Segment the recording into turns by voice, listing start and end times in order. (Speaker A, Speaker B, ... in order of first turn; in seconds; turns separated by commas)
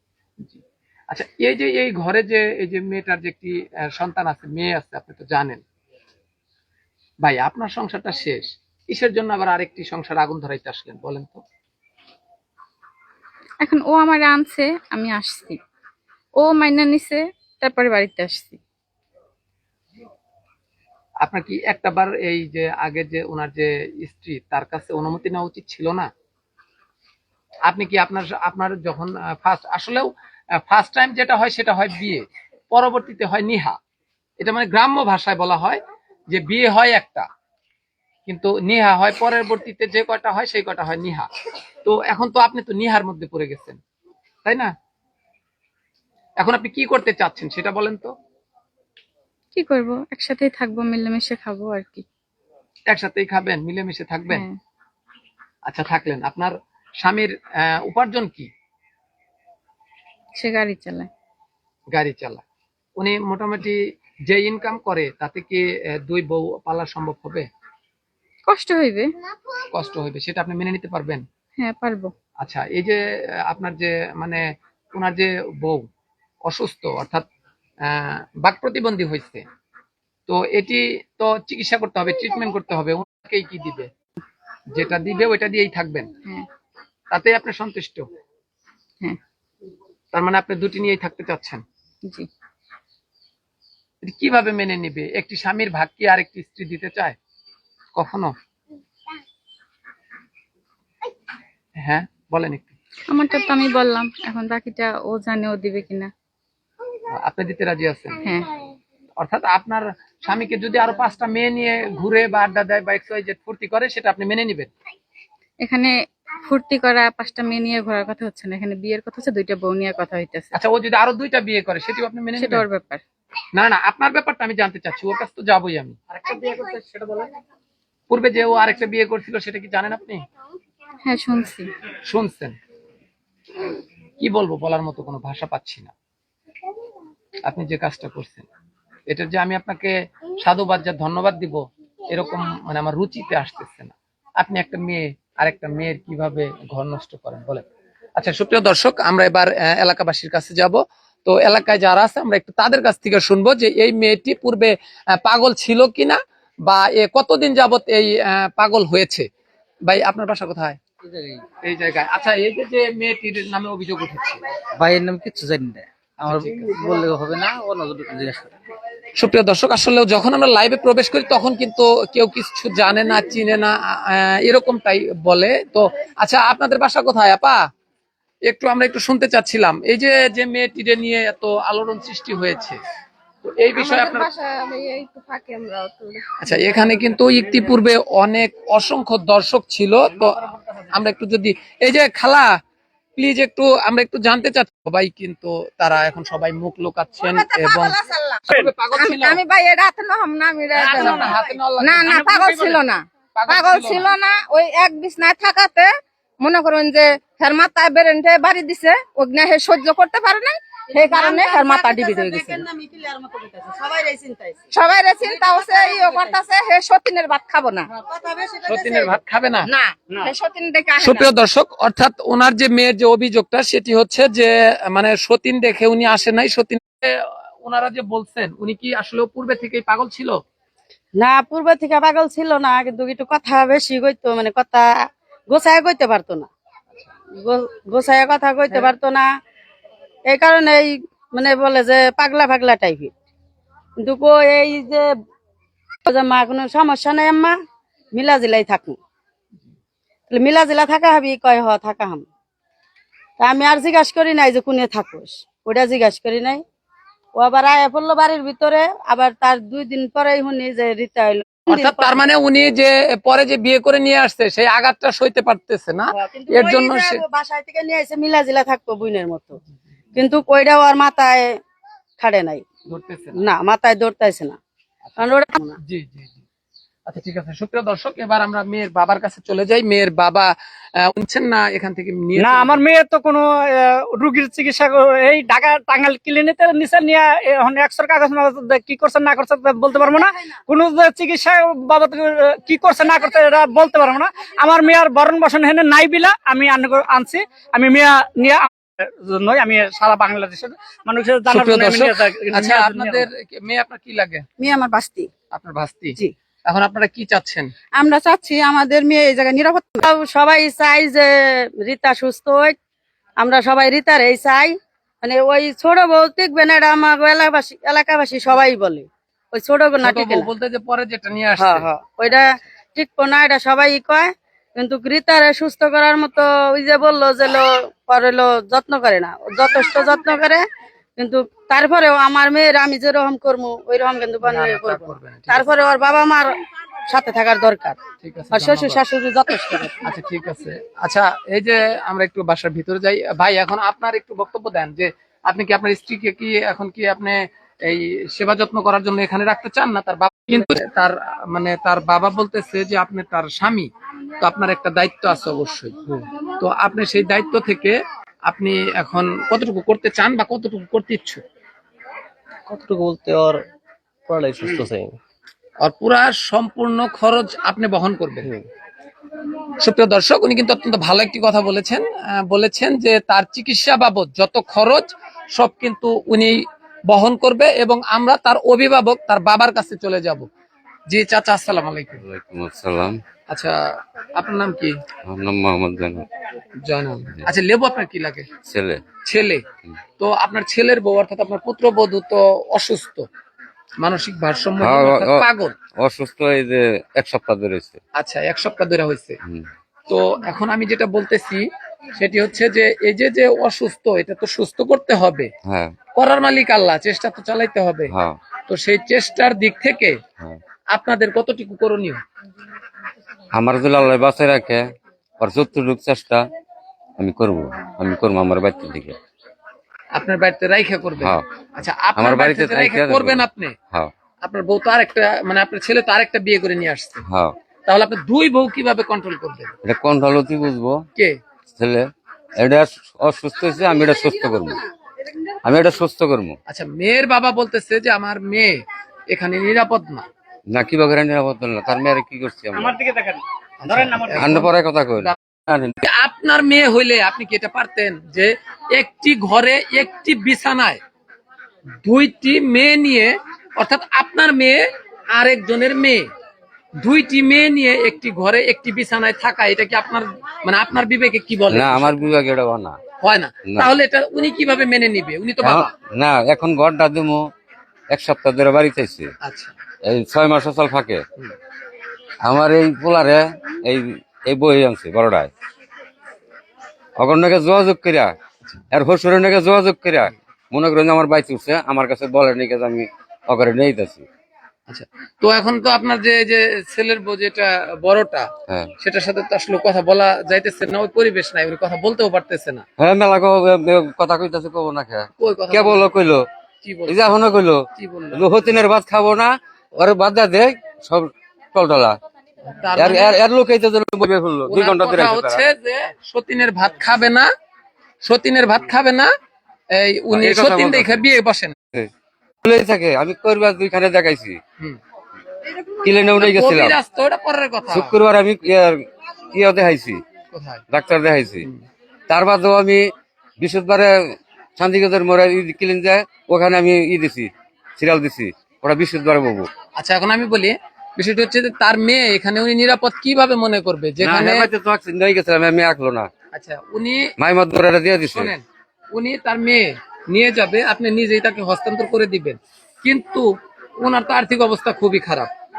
Speaker A: 0.4-5.6, Speaker A: 7.2-11.4, Speaker B: 13.6-15.6, Speaker B: 16.4-18.6, Speaker A: 21.2-26.1, Speaker A: 27.7-30.1, Speaker A: 30.6-33.8, Speaker A: 34.4-37.3, Speaker A: 38.3-41.3, Speaker A: 41.8-43.8, Speaker A: 44.4-44.7, Speaker A: 46.4-48.1, Speaker B: 49.5-52.0, Speaker A: 52.9-54.4, Speaker B: 54.3-54.6, Speaker A: 55.7-58.5, Speaker B: 60.4-61.1, Speaker A: 61.9-62.4, Speaker A: 63.0-67.5, Speaker B: 68.5-69.1, Speaker A: 69.7-71.2, Speaker B: 71.6-72.1, Speaker A: 72.4-75.8, Speaker A: 76.5-77.3, Speaker A: 77.8-79.4, Speaker A: 80.3-83.9, Speaker A: 84.7-86.1, Speaker A: 87.1-88.1, Speaker A: 90.1-91.6, Speaker A: 94.0-97.2, Speaker A: 97.9-98.3, Speaker A: 101.8-102.8, Speaker B: 103.1-106.1, Speaker A: 107.1-108.2, Speaker A: 109.2-114.7, Speaker B: 115.6-115.9, Speaker B: 116.5-120.5, Speaker A: 120.5-122.7, Speaker B: 122.4-123.0, Speaker A: 123.5-126.0, Speaker C: 126.1-127.3, Speaker A: 128.1-130.2, Speaker B: 131.0-131.7, Speaker A: 132.1-132.6, Speaker A: 134.2-135.9, Speaker A: 137.4-138.4, Speaker A: 139.1-147.6, Speaker A: 148.2-159.3, Speaker A: 159.9-160.8, Speaker D: 161.0-161.4, Speaker A: 161.6-164.4, Speaker D: 164.8-168.5, Speaker A: 166.2-166.8, Speaker A: 169.2-177.6, Speaker A: 178.5-182.8, Speaker A: 183.4-184.3, Speaker E: 183.8-186.8, Speaker A: 186.4-192.6, Speaker A: 193.2-199.4, Speaker E: 197.2-212.6, Speaker A: 200.7-202.1, Speaker C: 201.0-201.2, Speaker C: 202.0-202.8, Speaker A: 203.3-204.1, Speaker F: 210.9-214.6, Speaker E: 214.7-217.9, Speaker F: 216.0-216.3, Speaker F: 217.9-219.2, Speaker A: 218.7-219.7, Speaker E: 219.7-221.3, Speaker A: 221.0-230.4, Speaker F: 231.2-236.5, Speaker F: 237.3-239.3, Speaker F: 240.3-243.1, Speaker F: 244.0-245.1, Speaker F: 246.1-247.6, Speaker F: 248.1-249.0, Speaker F: 250.3-252.2, Speaker F: 253.4-256.6, Speaker F: 257.4-262.2, Speaker A: 261.7-267.2, Speaker F: 266.1-269.6, Speaker F: 270.1-271.6, Speaker F: 272.2-272.6, Speaker A: 272.9-273.4, Speaker F: 273.4-274.6, Speaker F: 275.2-275.8, Speaker A: 275.8-276.4, Speaker A: 277.1-282.8, Speaker C: 282.4-303.3, Speaker A: 301.5-304.5, Speaker F: 304.6-305.3, Speaker A: 305.5-307.7, Speaker F: 308.0-312.8, Speaker F: 313.4-320.5, Speaker A: 320.0-322.4, Speaker F: 321.6-330.6, Speaker F: 331.2-336.5, Speaker A: 334.4-335.7, Speaker F: 337.1-338.0, Speaker A: 338.2-339.0, Speaker F: 338.5-340.0, Speaker A: 340.0-353.9, Speaker A: 354.4-355.9, Speaker A: 356.6-361.4, Speaker G: 362.7-363.6, Speaker G: 364.3-365.2, Speaker A: 365.8-368.5, Speaker G: 368.4-368.7, Speaker A: 369.8-380.5, Speaker A: 381.1-382.2, Speaker H: 382.2-383.2, Speaker A: 383.5-383.8, Speaker A: 384.3-384.9, Speaker H: 385.2-386.3, Speaker A: 386.8-388.5, Speaker H: 388.6-389.0, Speaker A: 389.2-389.6, Speaker A: 390.2-393.2, Speaker A: 394.0-395.7, Speaker H: 394.8-395.4, Speaker H: 396.0-398.0, Speaker A: 398.1-399.4, Speaker H: 399.4-399.7, Speaker A: 400.1-405.5, Speaker H: 405.6-405.9, Speaker A: 406.1-408.1, Speaker H: 408.1-408.4, Speaker A: 408.7-410.2, Speaker A: 410.9-412.2, Speaker H: 413.5-416.4, Speaker H: 417.2-419.2, Speaker A: 420.1-423.8, Speaker H: 421.2-421.4, Speaker H: 422.1-424.1, Speaker A: 424.4-427.2, Speaker H: 427.2-427.5, Speaker A: 427.9-429.7, Speaker H: 429.8-431.0, Speaker H: 431.7-434.8, Speaker H: 435.6-436.6, Speaker A: 436.7-440.3, Speaker H: 440.7-442.9, Speaker C: 442.8-444.6, Speaker A: 443.8-445.4, Speaker H: 444.3-445.9, Speaker A: 446.0-451.0, Speaker A: 452.0-456.2, Speaker A: 457.0-462.2, Speaker H: 461.7-463.0, Speaker A: 463.2-465.9, Speaker H: 465.6-467.4, Speaker H: 468.1-469.3, Speaker A: 469.4-469.7, Speaker H: 470.0-471.2, Speaker H: 472.4-475.5, Speaker H: 477.2-478.3, Speaker H: 478.9-484.2, Speaker A: 484.9-492.8, Speaker H: 493.0-496.4, Speaker A: 495.4-496.1, Speaker A: 496.8-497.3, Speaker H: 497.1-502.2, Speaker A: 497.9-498.8, Speaker A: 502.7-503.4, Speaker H: 502.9-505.6, Speaker A: 504.7-507.5, Speaker A: 508.2-509.3, Speaker A: 509.9-511.7, Speaker H: 510.3-511.3, Speaker H: 512.6-514.6, Speaker H: 515.9-517.0, Speaker A: 516.4-518.1, Speaker H: 517.9-520.2, Speaker A: 520.5-520.8, Speaker H: 520.9-521.7, Speaker H: 522.3-523.0, Speaker H: 523.6-529.7, Speaker A: 530.0-534.7, Speaker H: 534.2-536.3, Speaker A: 536.5-537.3, Speaker H: 537.4-538.5, Speaker A: 538.2-545.5